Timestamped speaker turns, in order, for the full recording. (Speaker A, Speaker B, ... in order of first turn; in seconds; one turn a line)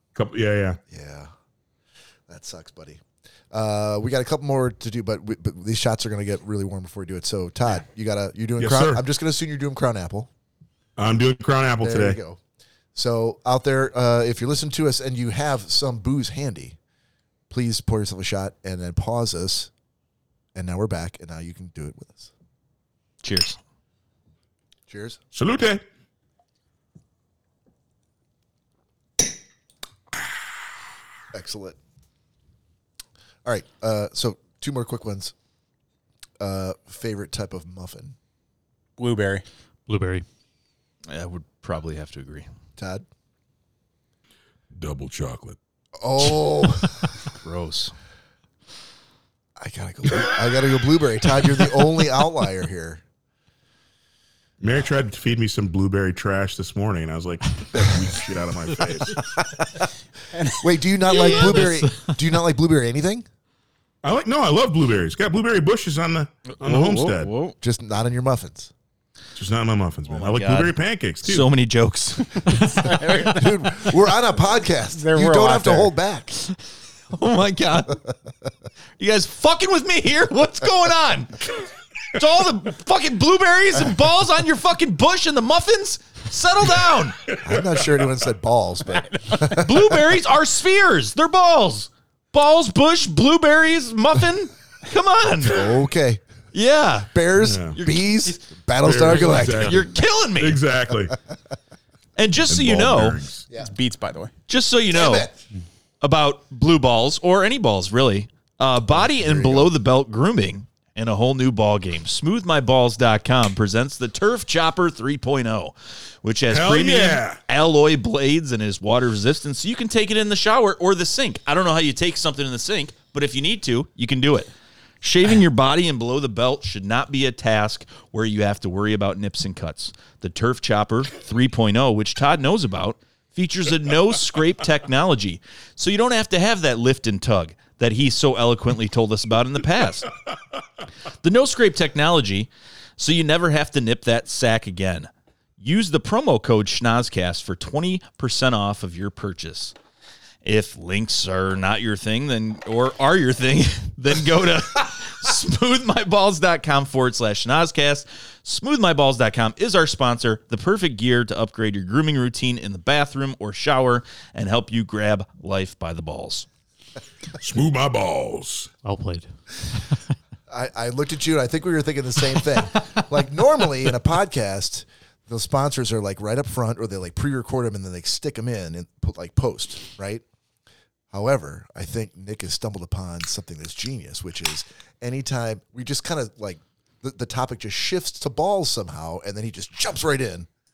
Speaker A: 0.1-0.8
Speaker B: 0.9-1.3
Speaker B: 2.3-10.3
Speaker A: 8.6-9.0
Speaker A: 11.0-12.2
Speaker B: 11.8-12.4
Speaker B: 12.9-16.8
Speaker B: 17.5-19.7
Speaker B: 20.5-22.3
Speaker C: 23.2-23.6
Speaker B: 24.9-25.2
Speaker A: 25.3-25.8
Speaker B: 31.3-31.8
Speaker B: 33.4-35.3
Speaker B: 36.4-38.1
Speaker D: 39.0-39.4
Speaker E: 39.9-40.2
Speaker C: 41.1-42.5
Speaker B: 42.8-43.0
Speaker A: 44.7-45.6
Speaker B: 46.0-47.1
Speaker C: 47.2-47.9
Speaker B: 49.6-53.0
Speaker A: 54.6-59.3
Speaker B: 59.4-59.9
Speaker D: 60.3-60.7
Speaker B: 60.6-63.2
Speaker E: 61.1-62.1
Speaker C: 61.1-61.6
Speaker A: 64.0-67.3
Speaker C: 66.5-67.5
Speaker B: 67.6-68.7
Speaker A: 69.3-71.5
Speaker C: 70.1-72.8
Speaker D: 72.5-73.9
Speaker B: 73.2-76.4
Speaker D: 74.9-75.9
Speaker C: 77.1-78.0
Speaker C: 79.0-81.5
Speaker C: 82.1-87.2
Speaker B: 87.4-90.0
Speaker A: 87.5-87.8
Speaker C: 89.5-95.7
Speaker B: 95.4-96.2
Speaker C: 96.5-97.1
Speaker B: 97.1-99.8
Speaker A: 97.4-97.7
Speaker C: 97.7-98.1
Speaker A: 98.8-99.9
Speaker C: 99.5-100.6
Speaker A: 100.4-101.2
Speaker C: 102.2-103.2
Speaker A: 102.5-103.5
Speaker D: 103.6-104.3
Speaker C: 104.5-105.3
Speaker B: 104.9-105.4
Speaker C: 106.0-124.5
Speaker B: 108.9-109.7
Speaker A: 116.5-117.4
Speaker C: 125.0-140.1
Speaker C: 141.2-149.7
Speaker C: 150.4-166.5
Speaker A: 167.4-168.7
Speaker E: 168.8-169.3
Speaker B: 170.5-180.2
Speaker B: 181.1-190.5